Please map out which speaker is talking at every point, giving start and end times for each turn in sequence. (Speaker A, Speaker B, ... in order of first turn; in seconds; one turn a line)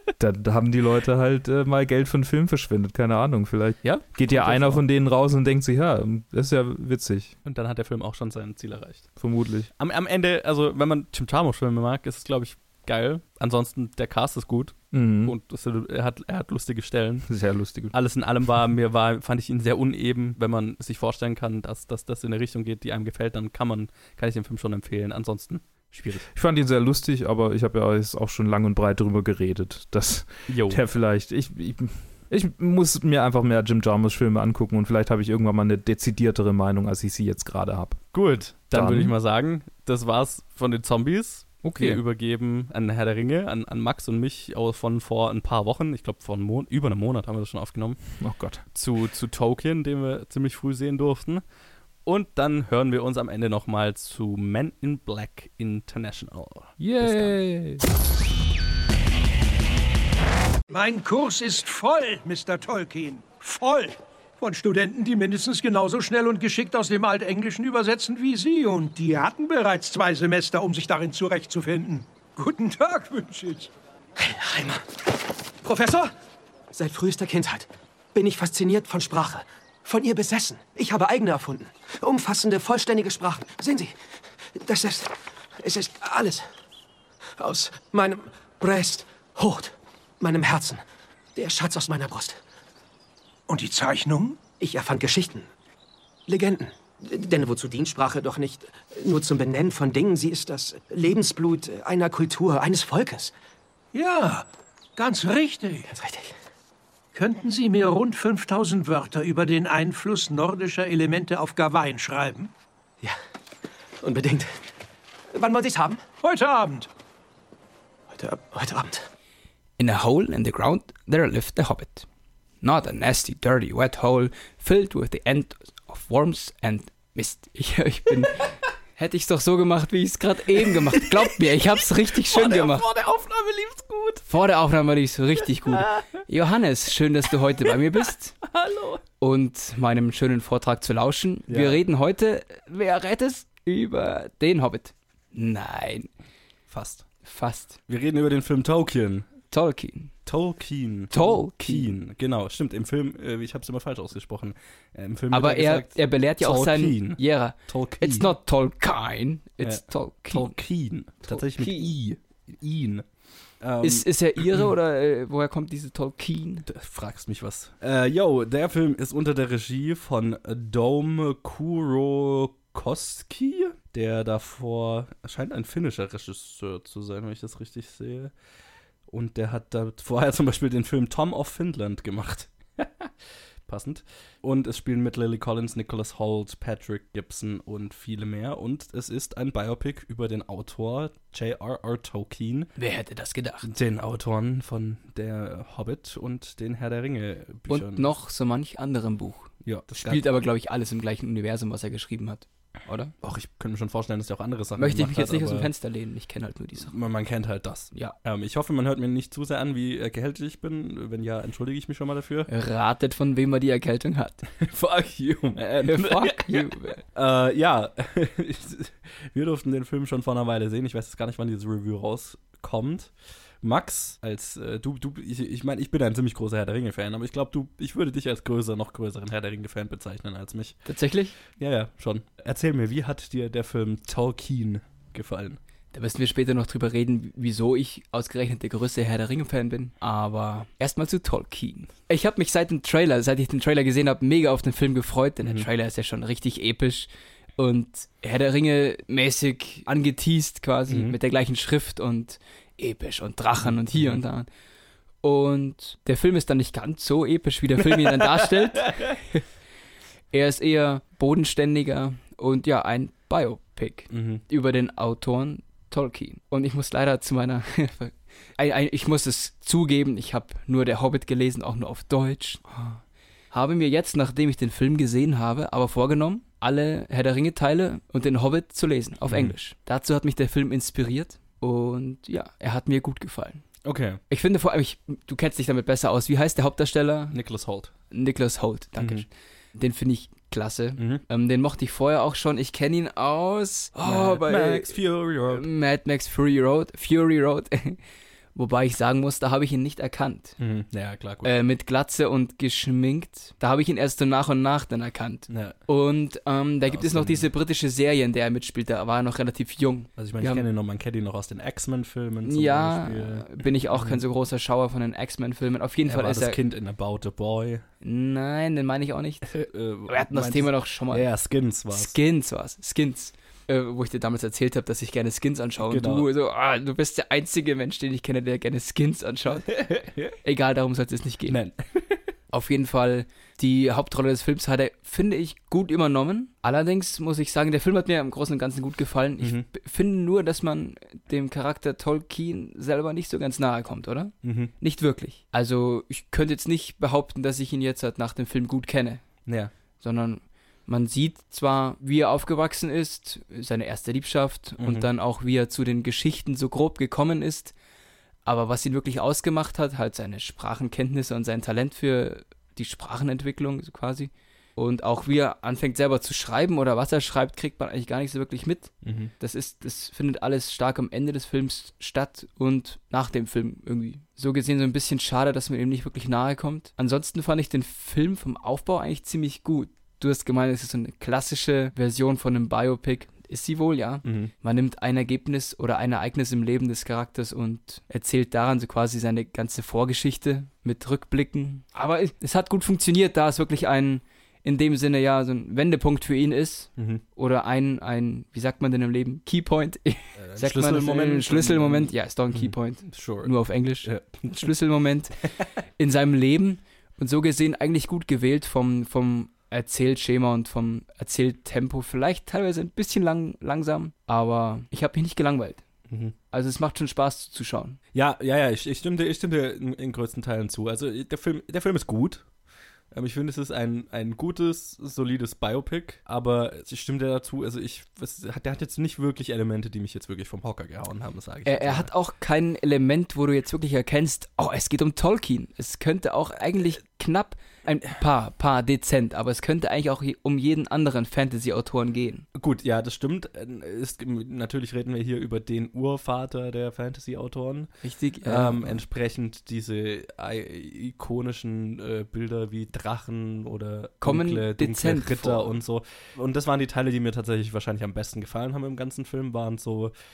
Speaker A: 0.2-7.3
Speaker B: 3.8-4.8
Speaker B: 7.5-9.1
Speaker A: 9.2-9.7
Speaker B: 9.8-17.3
Speaker A: 14.9-15.4
Speaker A: 17.3-17.9
Speaker B: 17.9-26.3
Speaker A: 26.3-39.1
Speaker B: 30.5-30.8
Speaker B: 38.1-48.0
Speaker A: 41.6-42.0
Speaker A: 48.2-48.6
Speaker B: 48.7-51.4
Speaker B: 52.0-57.3
Speaker A: 56.8-57.8
Speaker C: 60.7-73.7
Speaker D: 74.2-76.1
Speaker D: 76.7-84.0
Speaker D: 84.5-86.5
Speaker D: 87.4-90.8
Speaker D: 91.4-92.4
Speaker C: 93.5-94.4
Speaker D: 94.4-95.5
Speaker D: 96.3-103.3
Speaker C: 103.9-105.9
Speaker D: 105.9-106.4
Speaker C: 107.1-112.5
Speaker D: 114.0-114.6
Speaker D: 115.3-116.0
Speaker C: 116.2-116.9
Speaker D: 118.1-119.1
Speaker E: 119.8-122.1
Speaker E: 122.6-132.9
Speaker B: 130.7-131.3
Speaker B: 132.1-134.3
Speaker E: 134.3-138.4
Speaker B: 135.4-136.0
Speaker B: 137.7-139.0
Speaker E: 139.2-146.1
Speaker B: 141.5-141.8
Speaker B: 146.7-147.1
Speaker E: 147.2-147.8
Speaker B: 147.9-149.3
Speaker E: 149.5-150.2
Speaker B: 150.2-158.3
Speaker E: 151.1-151.9
Speaker E: 155.3-160.6
Speaker B: 159.6-163.1
Speaker E: 161.3-161.9
Speaker B: 163.6-164.7
Speaker E: 163.8-166.7
Speaker B: 166.7-178.3
Speaker B: 179.1-183.1
Speaker B: 183.7-192.7
Speaker E: 192.8-193.7
Speaker B: 193.6-198.1
Speaker E: 197.7-203.1
Speaker B: 199.6-200.2
Speaker B: 203.2-205.7
Speaker E: 204.8-206.9
Speaker B: 206.8-212.5
Speaker E: 212.5-214.7
Speaker B: 214.6-230.9
Speaker E: 215.8-217.0
Speaker E: 230.9-231.4
Speaker B: 231.6-235.6
Speaker E: 235.9-254.5
Speaker B: 245.4-245.7
Speaker B: 250.9-251.2
Speaker B: 253.6-254.2
Speaker E: 255.2-259.4
Speaker E: 260.3-272.6
Speaker B: 264.1-264.4
Speaker E: 273.5-283.7
Speaker B: 279.3-279.6
Speaker B: 283.9-284.2
Speaker E: 284.3-287.4
Speaker B: 287.3-287.9
Speaker E: 288.1-298.0
Speaker B: 289.0-289.2
Speaker B: 291.0-291.2
Speaker B: 294.0-295.7
Speaker E: 298.5-300.6
Speaker B: 300.6-301.5
Speaker E: 301.4-310.7
Speaker B: 305.5-305.8
Speaker B: 306.9-307.5
Speaker B: 310.2-314.2
Speaker E: 312.4-316.6
Speaker B: 316.0-317.9
Speaker E: 318.0-321.3
Speaker B: 319.5-322.1
Speaker E: 321.9-329.8
Speaker B: 325.8-326.3
Speaker B: 329.7-330.4
Speaker E: 330.4-331.6
Speaker B: 331.5-332.2
Speaker E: 332.5-349.2
Speaker B: 339.4-339.7
Speaker B: 344.4-344.7
Speaker B: 349.5-349.7
Speaker E: 350.0-357.8
Speaker B: 354.8-355.1
Speaker E: 358.4-415.8
Speaker B: 369.0-369.3
Speaker B: 384.2-384.5
Speaker B: 397.0-397.2
Speaker B: 400.4-404.7
Speaker B: 416.1-416.3
Speaker E: 416.5-418.0
Speaker B: 418.1-422.5
Speaker B: 423.1-432.1
Speaker E: 431.6-442.4
Speaker B: 442.6-460.1
Speaker E: 448.0-449.0
Speaker E: 454.2-455.8